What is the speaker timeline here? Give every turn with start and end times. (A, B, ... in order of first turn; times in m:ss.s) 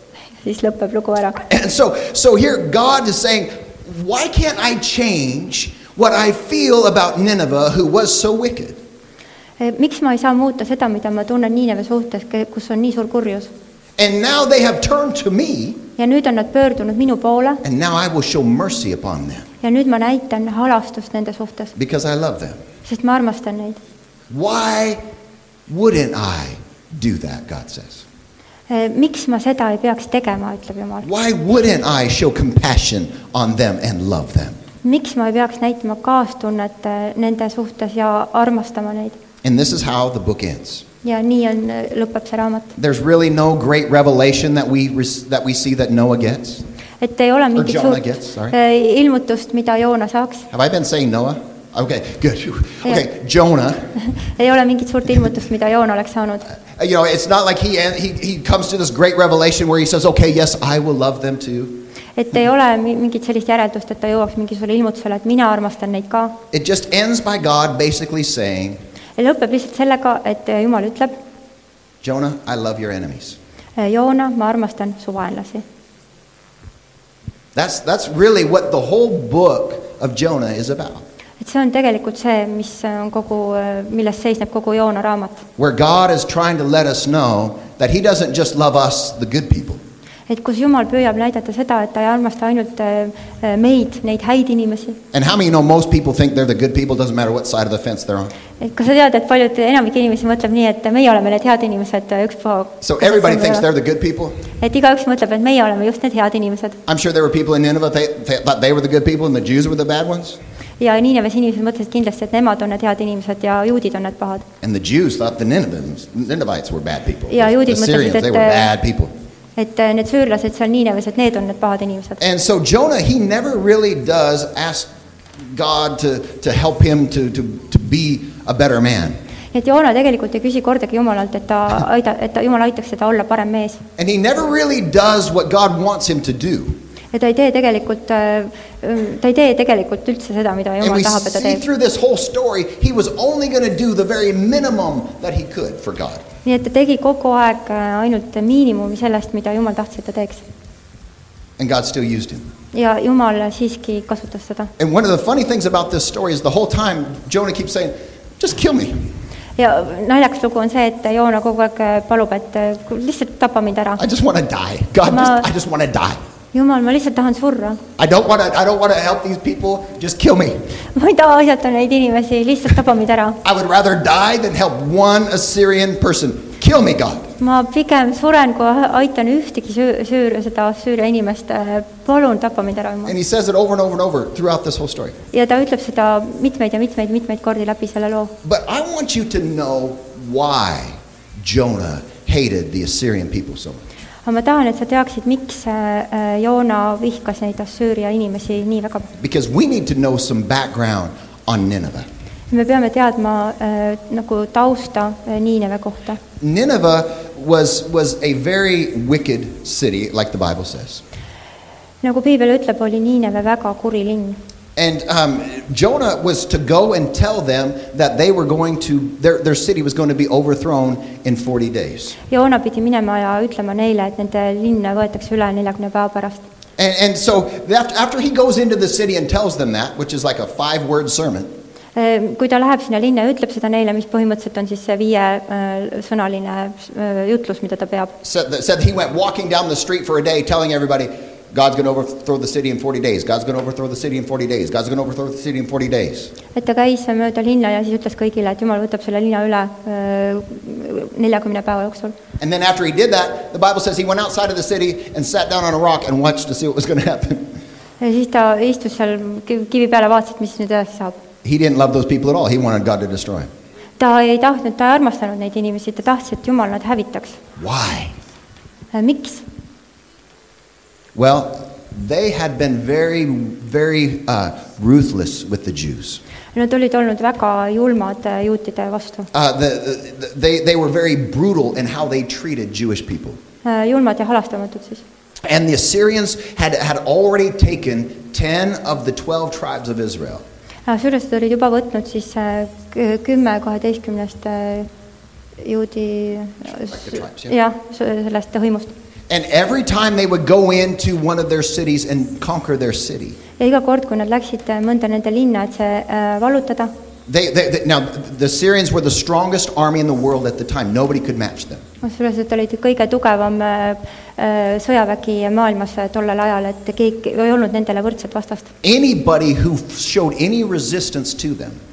0:00.4-0:01.4 A
0:01.5-0:08.8 B
0:09.6-0:13.5 A
0:14.0-0:15.8 B
0:16.0-0:17.6 A
0:17.6-0:19.5 B
0:19.6-0:21.7 A
0:21.8-0:22.6 B
0:22.8-0:23.8 A
0:24.3-0:25.0 B
0:25.7-0:28.0 B
0:28.7-0:31.1 A
0:31.0-0:34.6 B
0:34.8-0:39.2 A
0:39.4-0:40.8 B
0:41.0-0:42.7 A
0:42.8-0:46.6 B
0:47.0-0:50.5 A
0:47.6-0:48.5 B
0:50.5-0:53.9 B
0:54.1-0:56.4 A
0:56.8-1:01.8 B
1:02.2-1:06.4 A
1:06.5-1:08.8 B
1:09.2-1:11.2 A
1:12.0-1:13.4 B
1:13.8-1:15.6 A
1:17.5-1:21.0 B
1:21.4-1:25.4 A
1:25.6-1:29.8 B
1:30.3-1:35.0 A
1:35.1-1:38.3 B
1:38.6-1:43.6 A
1:42.8-1:44.4 B
1:44.6-1:46.8 A
1:46.9-1:50.4 B
1:50.8-1:54.5 A
1:54.6-1:59.1 B
1:57.3-1:58.7 A
1:59.6-2:02.2 A
2:02.2-2:09.2 B
2:09.5-2:13.8 A
2:14.0-2:16.8 B
2:17.1-2:21.6 A
2:20.8-2:26.2 B
2:26.4-2:30.4 A
2:31.6-2:32.4 B
2:32.7-2:34.7 A
2:34.8-2:39.0 B
2:39.6-2:44.0 A
2:44.0-2:46.2 B
2:45.1-2:45.5 A
2:46.5-2:47.8 A
2:48.0-2:50.6 B
2:50.9-2:53.4 A
2:53.4-2:57.3 B
2:57.4-3:03.1 A
3:03.0-3:05.1 B
3:05.3-3:08.3 A
3:08.4-3:13.8 B
3:14.2-3:19.1 A
3:19.2-3:22.1 B
3:22.5-3:26.2 A
3:26.4-3:31.0 B
3:32.0-3:34.4 A
3:34.8-3:42.2 B
3:42.3-3:46.4 A
3:46.8-3:51.5 B
3:51.9-3:58.1 A
3:58.2-4:06.3 B
4:06.5-4:12.1 A
4:12.4-4:17.5 B
4:18.0-4:21.2 A
4:21.4-4:23.5 B
4:24.0-4:27.4 A
4:27.6-4:28.1 B
4:28.9-4:29.4 A
4:31.1-4:36.2 B
4:36.5-4:39.3 A
4:39.3-4:43.4 B
4:43.6-4:45.0 A
4:45.4-4:50.4 B
4:50.8-4:54.9 A
4:55.6-4:58.9 A
4:56.8-4:57.5 B
4:59.3-5:03.4 B
5:03.6-5:06.9 A
5:07.3-5:11.8 B
5:12.0-5:18.7 A
5:18.8-5:21.8 B